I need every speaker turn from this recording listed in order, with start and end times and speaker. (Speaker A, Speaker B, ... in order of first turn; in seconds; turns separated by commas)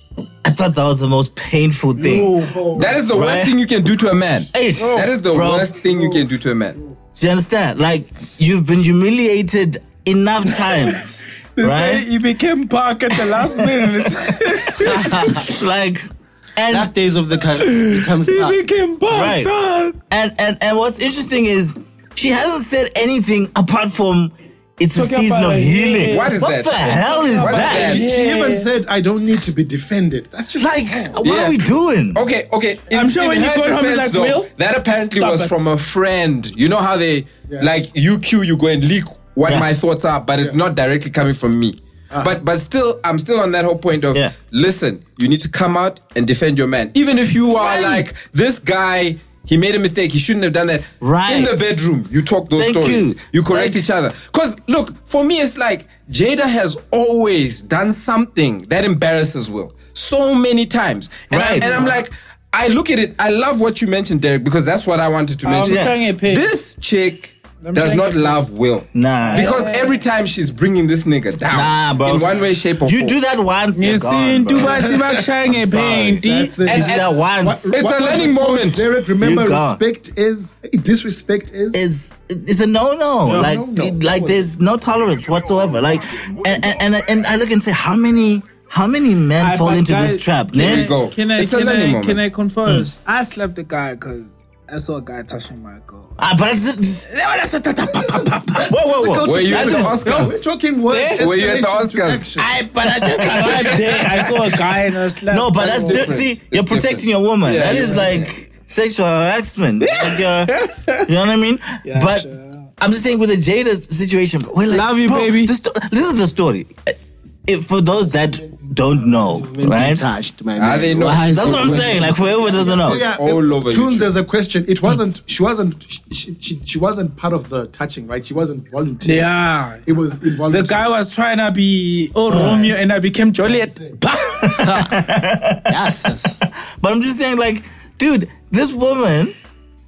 Speaker A: 0.4-3.6, Speaker B: 2.0-2.8, Speaker C: 2.0-3.0, Speaker D: 2.8-6.8, Speaker A: 4.5-5.7, Speaker B: 4.8-5.1, Speaker C: 5.9-6.2, Speaker A: 7.1-12.1, Speaker B: 10.6-10.9, Speaker B: 11.6-15.5, Speaker A: 13.1-13.9, Speaker A: 14.8-16.9, Speaker E: 16.7-18.6, Speaker B: 17.6-20.0, Speaker A: 19.1-19.5, Speaker A: 20.1-28.0, Speaker B: 24.9-26.4, Speaker D: 26.1-28.1, Speaker B: 27.0-28.7, Speaker C: 27.6-31.2, Speaker A: 30.6-32.2, Speaker D: 31.2-31.6, Speaker D: 32.1-73.2, Speaker B: 32.9-35.6, Speaker C: 42.1-42.4, Speaker A: 51.0-51.7, Speaker A: 52.6-53.8, Speaker A: 61.3-61.9, Speaker B: 61.6-61.9, Speaker B: 65.4-66.5, Speaker A: 65.7-66.0, Speaker B: 67.6-68.4, Speaker A: 68.9-69.6, Speaker B: 69.2-70.0, Speaker A: 71.5-77.7, Speaker B: 73.8-76.5, Speaker C: 76.2-81.8, Speaker D: 76.6-77.1, Speaker D: 77.7-78.9, Speaker A: 79.2-79.8, Speaker A: 81.7-90.9, Speaker C: 83.2-84.5, Speaker B: 89.4-96.2, Speaker D: 90.5-92.2, Speaker A: 96.2-97.1, Speaker B: 97.1-98.8, Speaker C: 98.0-102.6, Speaker A: 98.7-100.1, Speaker D: 99.2-100.4, Speaker B: 99.6-101.2, Speaker D: 101.2-102.3, Speaker B: 102.4-106.1, Speaker A: 103.1-104.4, Speaker A: 105.3-112.3, Speaker D: 105.6-108.3, Speaker B: 107.7-108.2, Speaker B: 109.8-111.1, Speaker B: 111.8-112.7, Speaker A: 112.8-117.0, Speaker B: 114.7-115.5, Speaker A: 117.5-120.0, Speaker E: 119.4-122.2, Speaker D: 120.6-124.1, Speaker A: 121.3-123.0, Speaker C: 122.4-129.3, Speaker B: 129.0-129.8, Speaker C: 129.8-130.8, Speaker B: 130.5-134.9, Speaker A: 132.3-132.7, Speaker C: 132.3-132.7, Speaker C: 133.5-134.0, Speaker A: 134.4-135.8, Speaker E: 135.7-136.4, Speaker A: 136.7-139.3